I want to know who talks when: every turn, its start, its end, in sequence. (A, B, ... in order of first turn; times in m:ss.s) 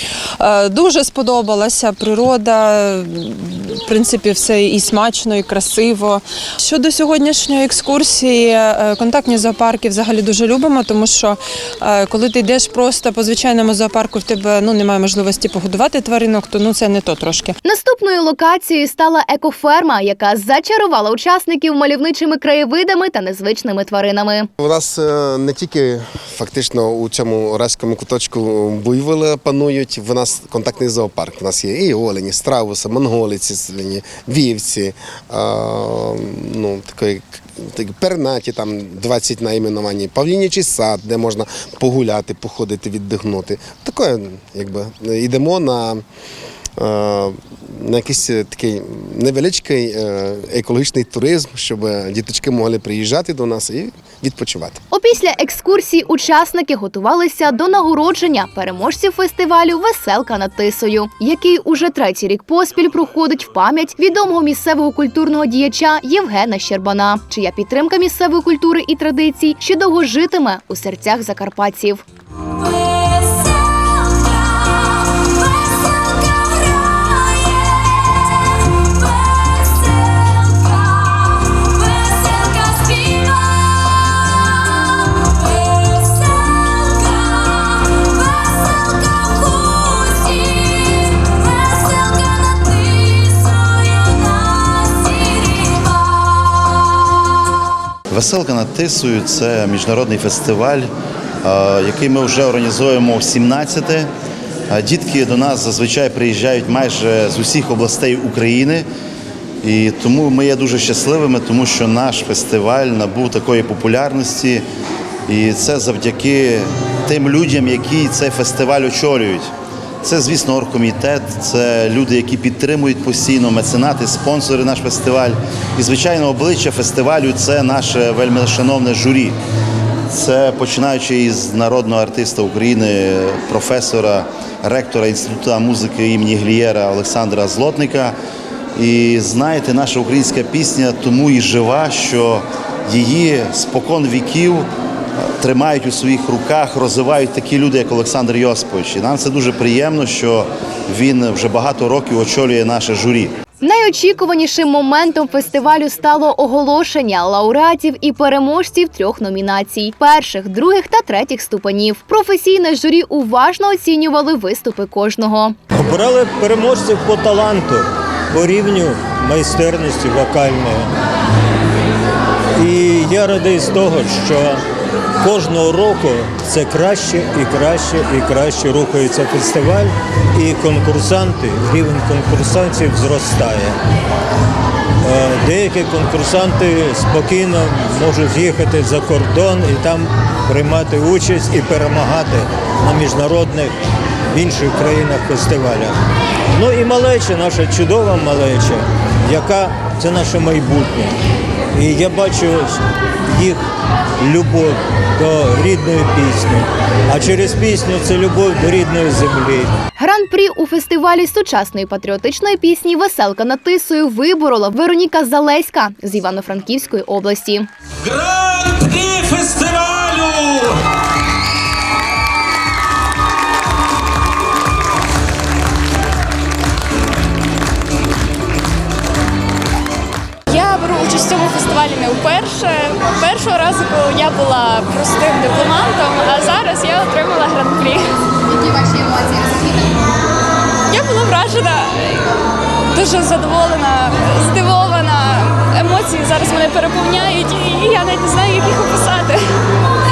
0:00.4-0:17.6 A
0:17.6-0:24.5 B
0:24.6-0:46.0 C
0:46.8-0:54.8 C
0:54.9-1:12.0 B
1:38.1-1:40.9 D
1:41.4-1:44.1 D
1:44.7-1:48.9 D
1:49.6-1:54.6 D
1:55.3-1:59.5 D
2:00.0-2:09.4 D
2:10.1-2:18.2 D
2:18.7-2:24.6 D
2:25.4-2:33.3 D
2:33.6-2:45.6 B
2:45.7-2:50.9 E
2:52.6-2:54.6 E
2:55.2-3:03.8 E
3:05.0-3:13.7 E
3:14.3-3:16.0 E
3:16.5-3:21.1 E
3:21.7-3:22.8 E
3:23.3-3:23.6 E
3:24.2-3:29.7 E
3:30.0-3:37.7 B
3:38.0-3:40.8 F
3:50.5-3:58.0 G
4:00.9-4:02.3 G
4:02.9-4:09.4 G